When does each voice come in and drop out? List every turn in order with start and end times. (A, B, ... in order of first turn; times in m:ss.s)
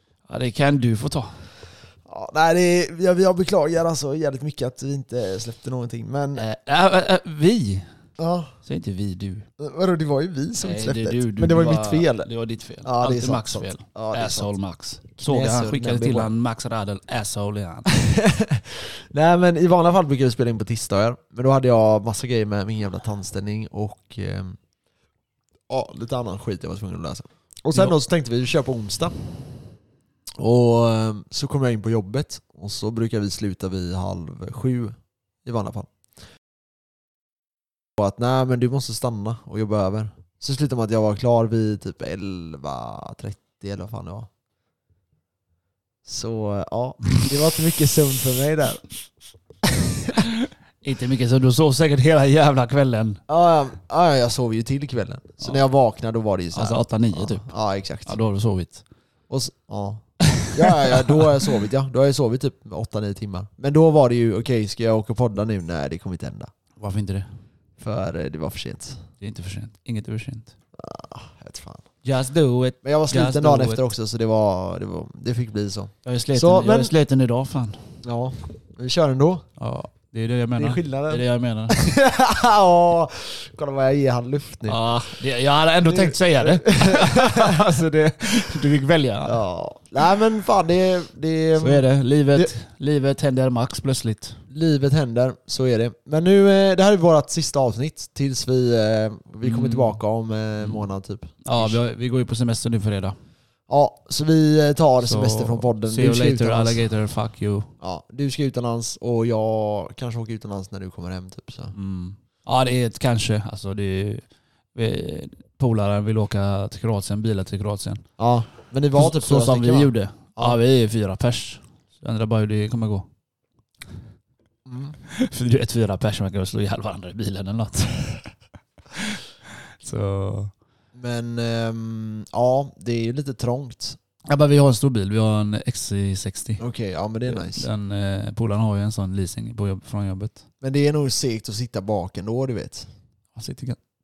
0:00.3-0:01.3 A
0:02.1-0:06.4 B
0:06.4-0:07.9 A
0:08.2-0:08.5 B
0:08.6-0:09.5 A
0:09.6-0:12.3 B
0:10.6-0:17.9 A
0:12.8-0:14.5 B
0:15.2-0:16.3 B
0:17.9-0:24.6 B
0:25.7-0:29.1 B
0:30.4-0:35.9 B
0:38.0-0:44.3 B
0:46.0-0:48.8 B
0:50.8-0:53.2 A
0:53.3-0:58.1 B
0:56.5-0:57.5 A
0:58.0-0:58.8 A
0:59.3-1:06.5 B
1:00.3-1:01.2 A
1:06.8-1:07.3 A
1:07.8-1:09.0 B
1:09.2-1:10.5 A
1:10.8-1:11.8 B
1:12.0-1:13.8 A
1:12.8-1:16.9 B
1:16.0-1:17.8 A
1:18.0-1:19.4 B
1:19.6-1:21.8 A
1:20.5-1:24.8 B
1:24.6-1:29.4 A
1:25.8-1:27.6 B
1:29.2-1:32.5 B
1:31.6-1:34.4 A
1:34.5-1:41.8 B
1:39.4-1:40.0 A
1:41.4-1:43.2 A
1:43.7-1:46.8 B
1:45.0-1:47.7 A
1:47.8-1:51.7 B
1:51.7-1:58.0 A
1:58.2-2:00.6 B
1:58.9-2:03.1 A
2:04.6-2:05.0 B
2:05.1-2:08.3 A
2:08.9-2:09.2 A
2:09.8-2:10.5 A
2:10.9-2:14.0 B
2:14.2-2:16.6 A
2:16.6-2:17.7 B
2:17.3-2:20.4 A
2:20.6-2:22.9 B
2:23.3-2:23.8 A